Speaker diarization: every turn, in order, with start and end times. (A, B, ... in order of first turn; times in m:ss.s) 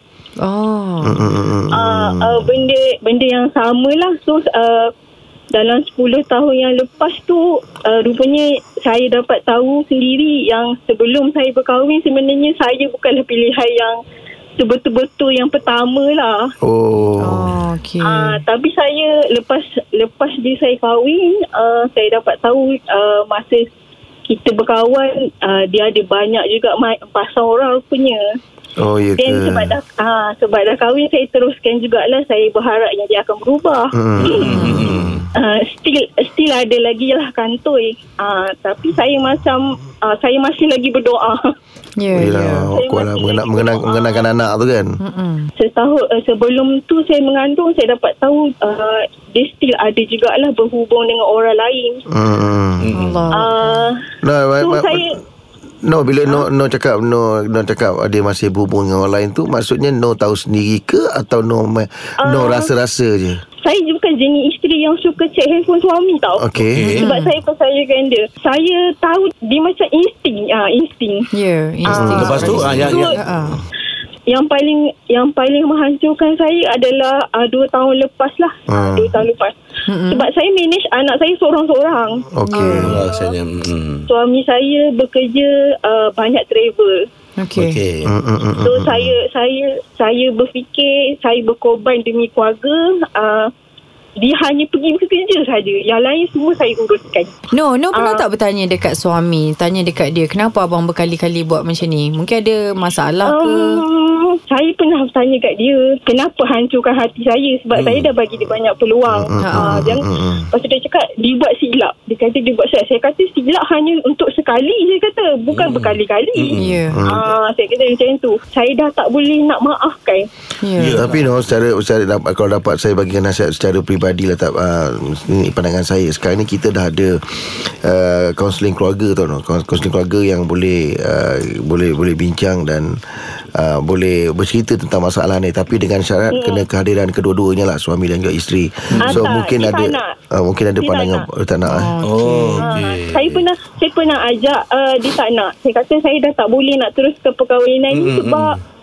0:00.4-0:01.2 A
0:01.0-0:02.5 B
0:01.7-0:04.9 C
0:05.5-0:14.0 C
0:14.6-0:16.5 C
0:16.6-0:17.5 B
0:17.2-0:18.4 A
0:18.0-0:23.7 C
0:24.3-0:28.2 C
0:28.8-0:29.8 B
0:29.2-0:34.6 C
0:33.9-0:35.2 B
0:34.2-0:35.2 D
0:34.5-0:34.8 A
0:35.3-0:41.5 C
0:42.0-0:42.7 A
0:42.1-0:45.0 B
0:42.7-0:44.2 C
0:45.0-0:45.5 A
0:45.6-0:52.0 C
0:52.1-0:52.9 B
0:52.8-0:53.2 D
0:52.9-0:53.5 A
0:53.3-0:54.0 C
0:54.2-0:55.1 B
0:54.6-0:55.1 C
0:55.8-1:03.4 B
1:02.2-1:02.7 C
1:03.6-1:11.2 C
1:06.4-1:06.9 B
1:06.7-1:07.1 D
1:06.9-1:07.3 A
1:11.3-1:13.6 A
1:11.9-1:13.1 C
1:11.9-1:12.4 B
1:12.1-1:13.1 D
1:14.3-1:19.5 C
1:18.7-1:19.2 B
1:19.9-1:20.2 A
1:20.1-1:23.4 C
1:22.3-1:23.0 B
1:22.5-1:22.9 A
1:22.8-1:24.1 D
1:24.1-1:27.0 C
1:27.4-1:27.8 A
1:27.6-1:28.1 D
1:28.1-1:29.2 B
1:28.6-1:33.5 C
1:34.2-1:37.3 C
1:37.5-1:43.8 A
1:37.9-1:38.2 C
1:43.2-2:00.3 C
1:47.7-1:48.1 D
1:49.1-1:50.5 B
1:49.4-1:49.7 A
1:55.5-1:56.8 D
1:56.6-1:57.0 A
1:56.9-1:57.3 B
2:00.6-2:01.0 A
2:00.8-2:01.3 D
2:00.9-2:13.0 B
2:13.5-2:21.9 B
2:16.3-2:16.6 C
2:18.9-2:19.3 D
2:19.0-2:20.1 C
2:20.8-2:21.2 C
2:21.7-2:22.6 A
2:22.0-2:23.4 D
2:22.6-2:28.6 C
2:27.9-2:28.6 D